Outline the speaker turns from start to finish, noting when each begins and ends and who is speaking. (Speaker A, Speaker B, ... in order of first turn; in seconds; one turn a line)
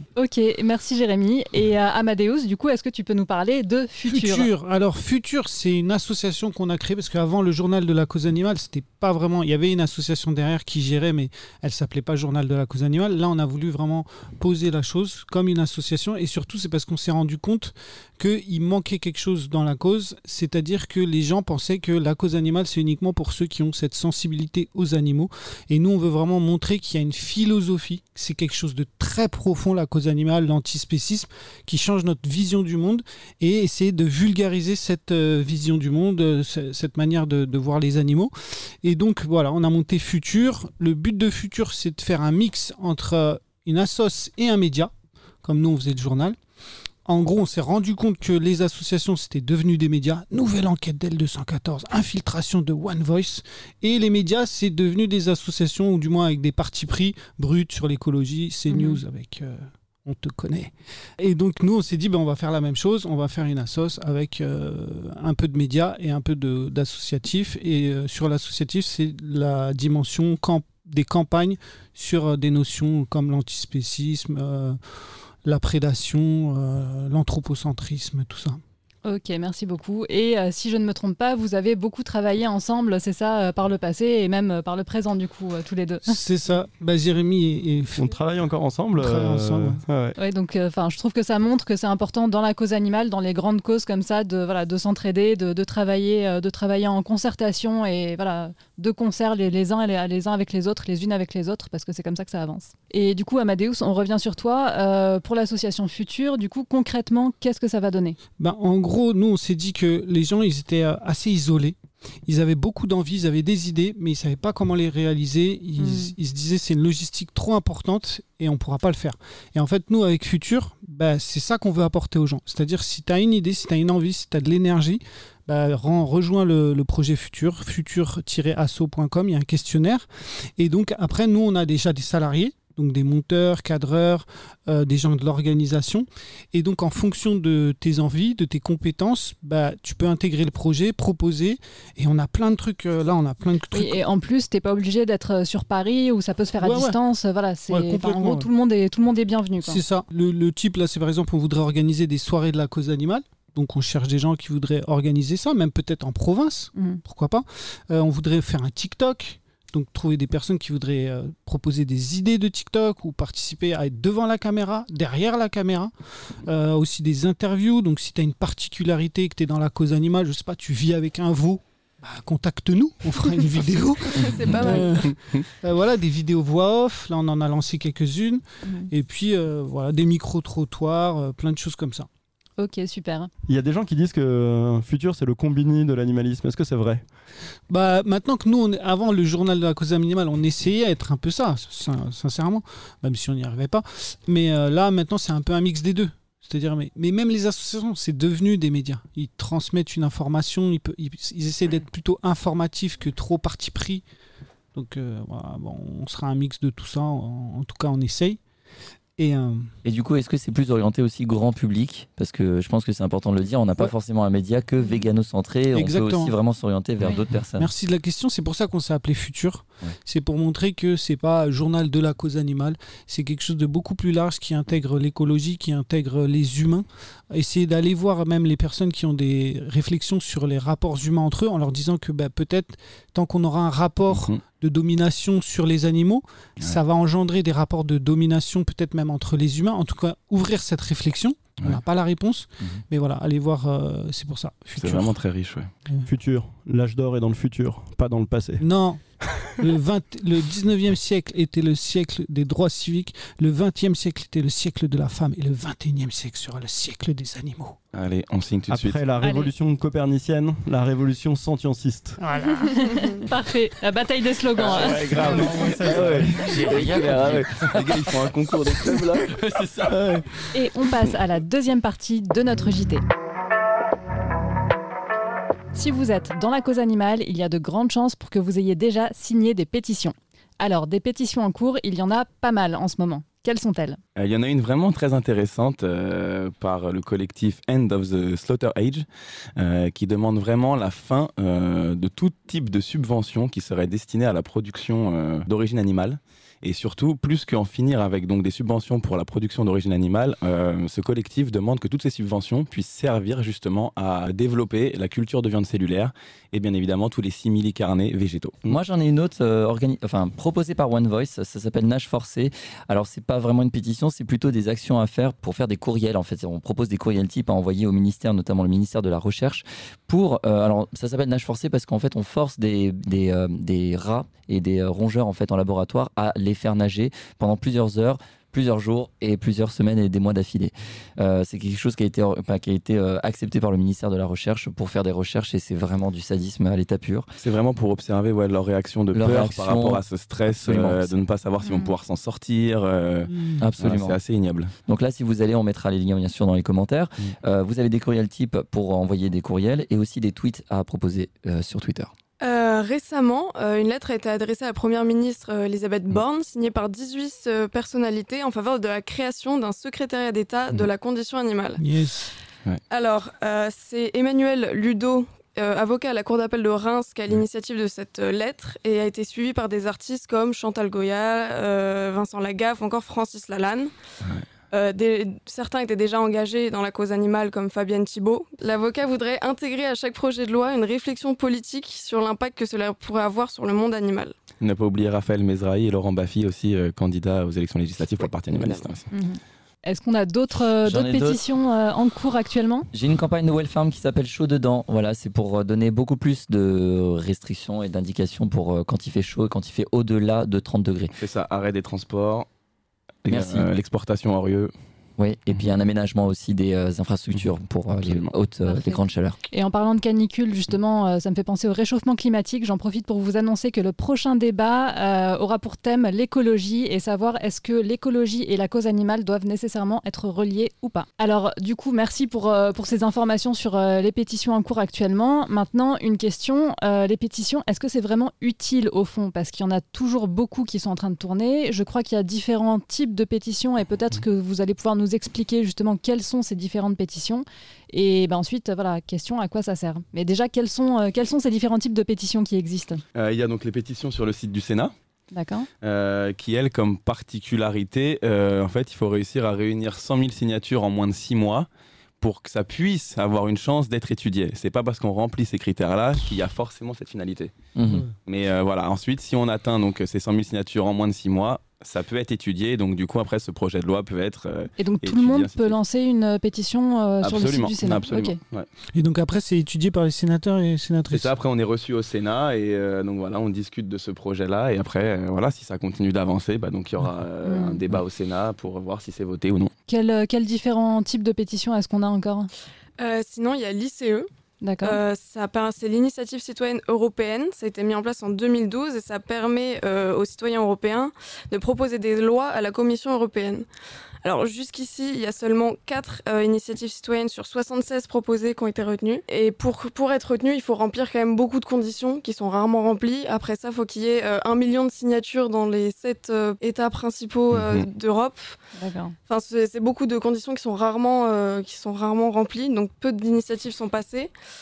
Speaker A: 0.2-4.5
Speaker B: 4.1-44.9
Speaker B: 45.4-46.4
Speaker B: 47.1-74.8
Speaker A: 58.7-59.0
Speaker B: 75.4-78.6
Speaker A: 79.0-86.1
Speaker B: 86.1-88.1
Speaker C: 88.0-90.2
Speaker B: 89.0-89.8
Speaker A: 90.2-108.2
Speaker B: 108.4-144.0
Speaker A: 115.8-116.1
Speaker A: 143.7-149.8
Speaker B: 146.6-147.0
Speaker B: 147.7-148.5
Speaker B: 149.6-182.1
Speaker A: 156.8-157.0
Speaker D: 174.1-175.2
Speaker A: 178.6-178.9
Speaker A: 182.6-183.3
Speaker C: 183.5-187.0
Speaker B: 187.7-204.0
Speaker B: 204.8-208.4
Speaker B: 209.2-209.7
Speaker E: 209.8-217.7
Speaker B: 215.7-216.3
Speaker B: 217.6-245.2
Speaker F: 234.1-234.4
Speaker F: 244.8-245.7
Speaker C: 246.1-248.6
Speaker B: 248.6-257.8
Speaker F: 257.9-259.0
Speaker C: 258.7-262.2
Speaker A: 259.2-259.5
Speaker B: 262.2-263.0
Speaker A: 262.7-265.1
Speaker F: 264.6-270.5
Speaker C: 264.6-266.9
Speaker E: 266.6-269.0
Speaker A: 270.5-273.0
Speaker A: 275.7-284.0
Speaker F: 284.2-308.8
Speaker E: 308.7-337.3
Speaker F: 337.4-344.7
Speaker E: 339.1-341.2
Speaker A: 341.6-341.9
Speaker B: 343.4-343.6
Speaker E: 343.6-344.2
Speaker E: 344.9-352.1
Speaker D: 352.4-361.8
Speaker B: 361.8-362.3
Speaker D: 362.9-373.9
Speaker D: 374.7-384.3
Speaker F: 384.6-389.1
Speaker A: 389.1-392.9
Speaker E: 390.8-391.4
Speaker E: 392.9-401.1
Speaker F: 401.2-402.5
Speaker F: 403.2-404.7
Speaker E: 403.3-403.7
Speaker E: 405.2-409.4
Speaker F: 408.0-408.3
Speaker A: 408.7-443.0
Speaker F: 443.1-444.9
Speaker A: 445.3-445.7
Speaker F: 445.8-451.7
Speaker F: 452.2-457.6
Speaker E: 457.8-458.1
Speaker F: 458.3-465.8
Speaker A: 464.8-468.4
Speaker F: 467.2-468.7
Speaker B: 468.9-471.3
Speaker F: 471.1-479.7
Speaker A: 477.4-477.8
Speaker A: 479.9-482.5
Speaker D: 483.0-484.3
Speaker A: 484.6-485.0
Speaker D: 484.8-493.7
Speaker D: 494.2-508.6
Speaker F: 507.5-507.9
Speaker A: 508.8-509.1
Speaker D: 509.3-514.3